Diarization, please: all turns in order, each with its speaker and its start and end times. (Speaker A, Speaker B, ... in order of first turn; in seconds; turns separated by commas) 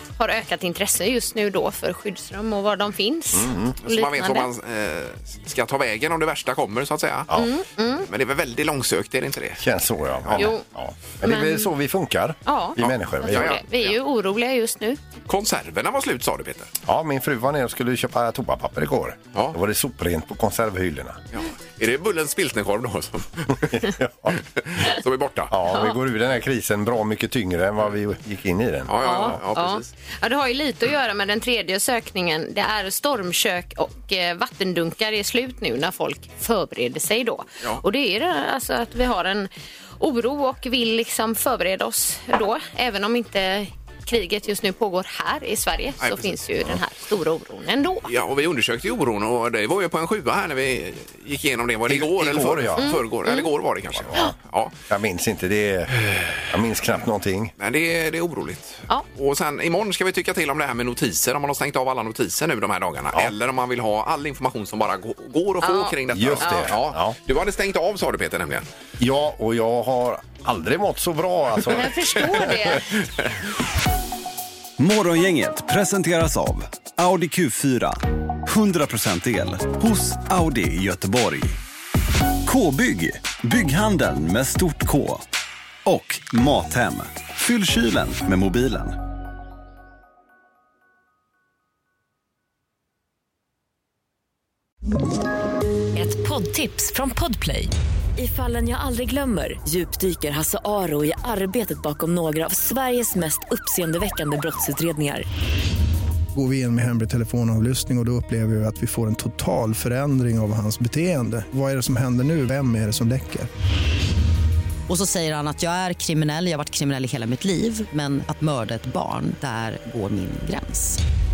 Speaker A: 0.2-4.5, Speaker B: 3.3-3.7, Speaker C: 3.8-7.3, Speaker A: 7.3-8.1, Speaker C: 8.1-9.6, Speaker B: 9.6-13.6, Speaker A: 10.4-10.6, Speaker A: 11.2-11.7, Speaker A: 12.4-15.0, Speaker C: 12.8-13.9, Speaker C: 15.3-16.7, Speaker B: 16.9-21.2, Speaker C: 21.3-25.5, Speaker B: 23.7-24.4, Speaker B: 25.5-29.4, Speaker C: 28.9-29.9, Speaker A: 29.0-48.1, Speaker C: 46.0-46.3, Speaker C: 48.1-54.7, Speaker B: 51.9-52.9, Speaker A: 52.8-53.5, Speaker B: 54.0-54.3, Speaker B: 54.9-57.5, Speaker C: 56.0-56.5, Speaker C: 57.6-68.6, Speaker A: 65.6-66.7, Speaker B: 66.1-67.2, Speaker B: 69.0-72.5, Speaker A: 71.7-73.0, Speaker C: 72.3-72.6, Speaker D: 74.8-81.6, Speaker D: 82.4-85.2, Speaker D: 85.8-89.0, Speaker E: 95.9-105.2, Speaker F: 106.3-113.5, Speaker G: 114.9-121.0